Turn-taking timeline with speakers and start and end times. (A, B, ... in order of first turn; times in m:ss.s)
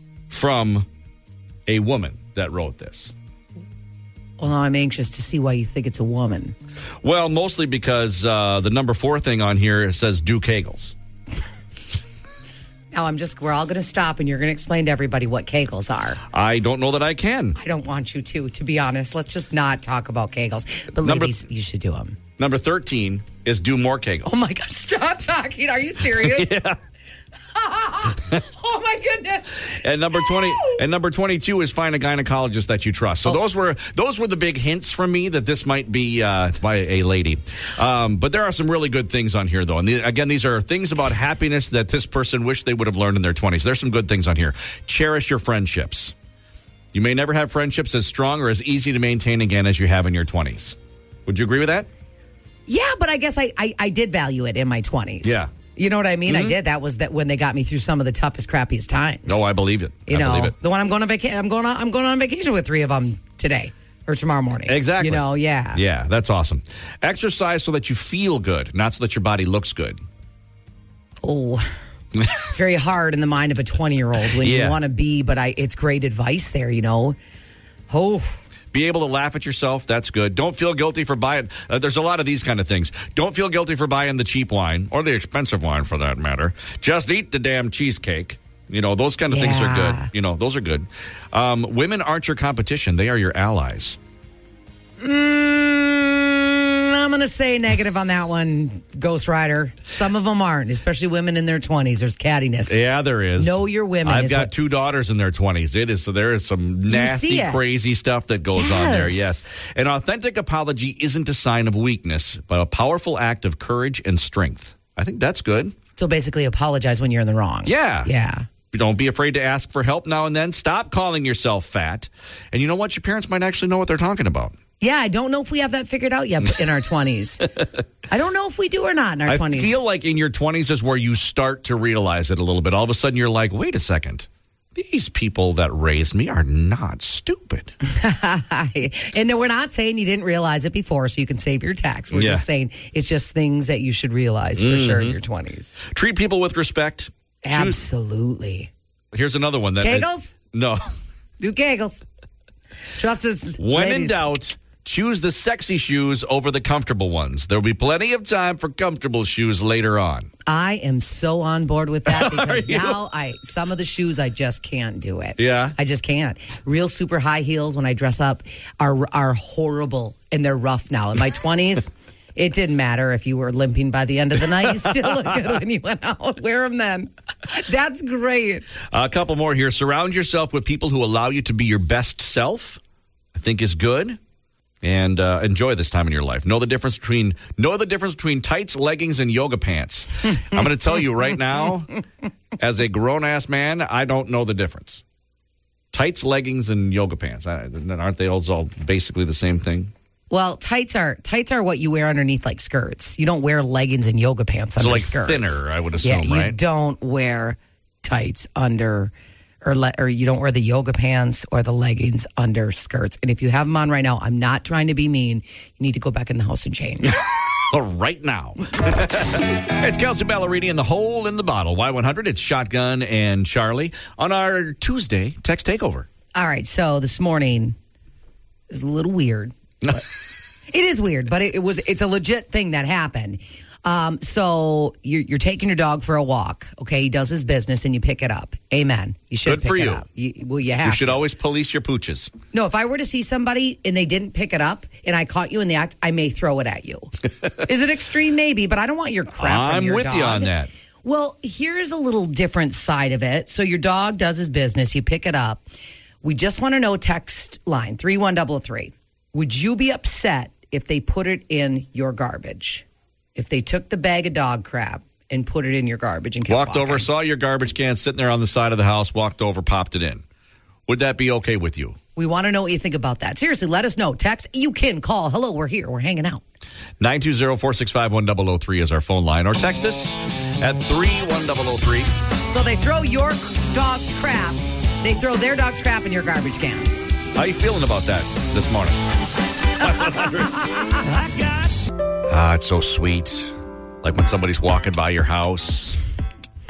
0:00.3-0:00.9 A
0:01.7-0:03.1 A
0:04.4-0:06.5 B
0:07.0-0:10.9 A
0:12.9-0:16.2 B
0:16.3-0:17.6 A
0:17.6-0:22.2 B
0:21.0-0:21.3 A
0:22.4-0:24.3 A
0:24.2-0:26.6 B
0:26.2-0:26.8 A
0:27.5-0:30.8 B
0:29.7-0:46.1 A
0:46.9-0:51.9 A
0:52.7-0:59.4 B
0:55.2-0:55.5 A
0:56.3-0:56.6 A
0:59.2-1:00.5 A
1:00.1-1:05.8 B
1:04.7-1:10.0 A
1:11.2-1:11.6 B
1:12.4-1:17.2 B
1:14.4-1:14.8 A
1:17.9-1:18.4 B
1:18.7-1:34.0 A
1:29.3-1:30.1 B
1:35.0-1:42.8 B
1:42.7-1:55.7 A
1:43.4-1:44.5 B
1:46.9-1:47.6 B
1:48.5-1:49.5 B
1:56.0-1:58.5 B
1:57.6-1:58.1 A
1:58.7-2:04.5 A
2:04.8-2:07.5 B
2:08.1-2:09.7 B
2:09.3-2:17.7 A
2:17.8-2:25.7 B
2:22.1-2:22.4 A
2:24.6-2:25.2 A
2:25.9-2:27.8 A
2:27.4-2:28.7 B
2:29.1-2:30.9 A
2:29.8-2:30.3 B
2:31.4-2:32.0 B
2:33.0-2:34.2 B
2:33.6-2:40.3 A
2:40.5-2:58.7 B
2:42.1-2:43.0 A
2:45.4-2:45.7 A
2:58.9-3:02.8 A
3:03.3-3:04.2 A
3:04.8-3:12.0 A
3:12.6-3:15.0 A
3:15.9-3:19.9 A
3:20.3-3:37.2 B
3:24.8-3:26.6 A
3:37.1-3:46.1 A
3:46.3-3:47.8 B
3:48.7-3:50.0 B
3:50.7-4:01.2 B
3:59.4-4:00.0 A
4:00.8-4:02.3 A
4:02.5-4:10.5 B
4:09.4-4:10.7 A
4:11.0-4:15.6 B
4:16.2-4:27.1 B
4:26.5-4:30.2 A
4:30.9-4:32.0 A
4:32.1-4:36.4 B
4:37.0-4:42.2 A
4:42.4-4:46.9 B
4:47.4-4:49.0 A
4:49.8-4:50.5 A
4:50.0-4:51.0 B
4:52.3-4:56.0 A